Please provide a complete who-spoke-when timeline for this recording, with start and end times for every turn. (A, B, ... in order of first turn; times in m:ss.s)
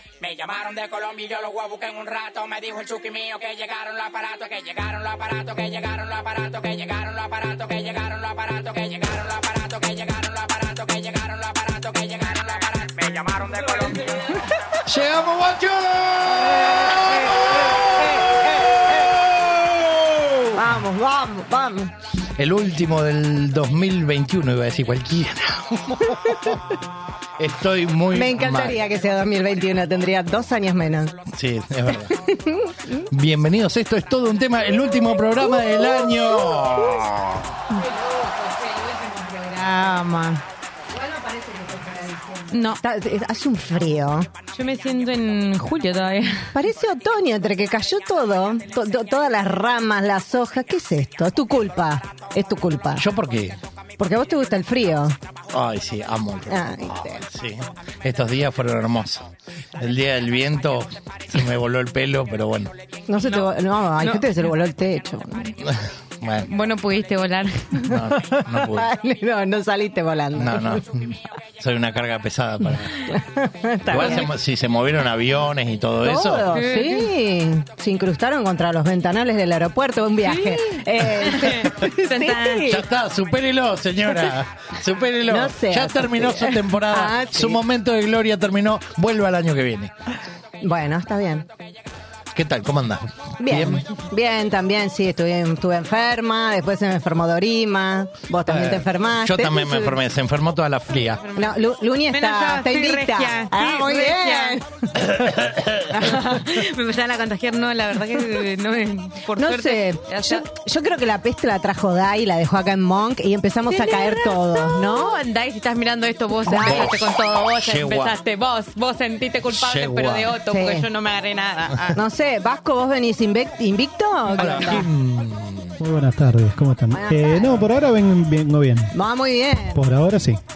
0:00.2-0:13.2 A
0:13.2-0:14.4 B
0:14.8-0:18.1 C
0:17.1-0:19.1 D
0:18.9-0:19.4 C
0:20.5-0:21.9 D
0:22.4-0:26.6 C
0:27.4-0:28.8 C
0:28.1-0:31.2 D
0:31.3-0:32.1 C
0:32.0-0:33.1 D
0:33.1-0:37.4 C
0:35.8-0:36.4 D
0:37.7-0:40.0 B
0:39.7-0:40.4 D
0:41.0-0:44.3 D
0:42.5-0:42.8 B
0:44.5-0:46.5 B
0:46.5-0:53.0 D
0:53.0-0:53.6 C
0:54.0-0:55.2 D
0:55.5-0:59.3 C
0:56.5-0:57.2 D
0:59.8-1:02.7 C
1:03.1-1:05.6 D
1:03.2-1:04.3 B
1:05.6-1:06.5 C
1:06.4-1:07.9 B
1:07.9-1:08.9 C
1:08.1-1:10.8 D
1:10.3-1:13.0 C
1:13.0-1:14.3 D
1:13.9-1:16.5 C
1:16.0-1:22.8 D
1:16.5-1:17.1 B
1:20.2-1:22.6 B
1:22.7-1:29.9 C
1:25.3-1:27.6 D
1:30.6-1:31.4 D
1:32.3-1:33.8 C
1:33.4-1:40.0 D
1:38.5-1:41.2 C
1:41.2-1:44.6 B
1:41.4-1:44.6 D
1:45.0-1:45.9 C
1:45.9-1:46.4 D
1:46.0-1:50.4 B
1:49.4-1:55.2 D
1:53.7-2:02.0 B
1:56.5-1:56.9 D
1:56.5-1:58.2 C
1:59.5-2:00.3 C
2:00.5-2:00.8 D
2:01.9-2:04.9 D
2:04.4-2:05.7 C
2:05.8-2:08.9 E
2:06.9-2:07.6 D
2:08.9-2:09.8 D
2:09.7-2:10.4 E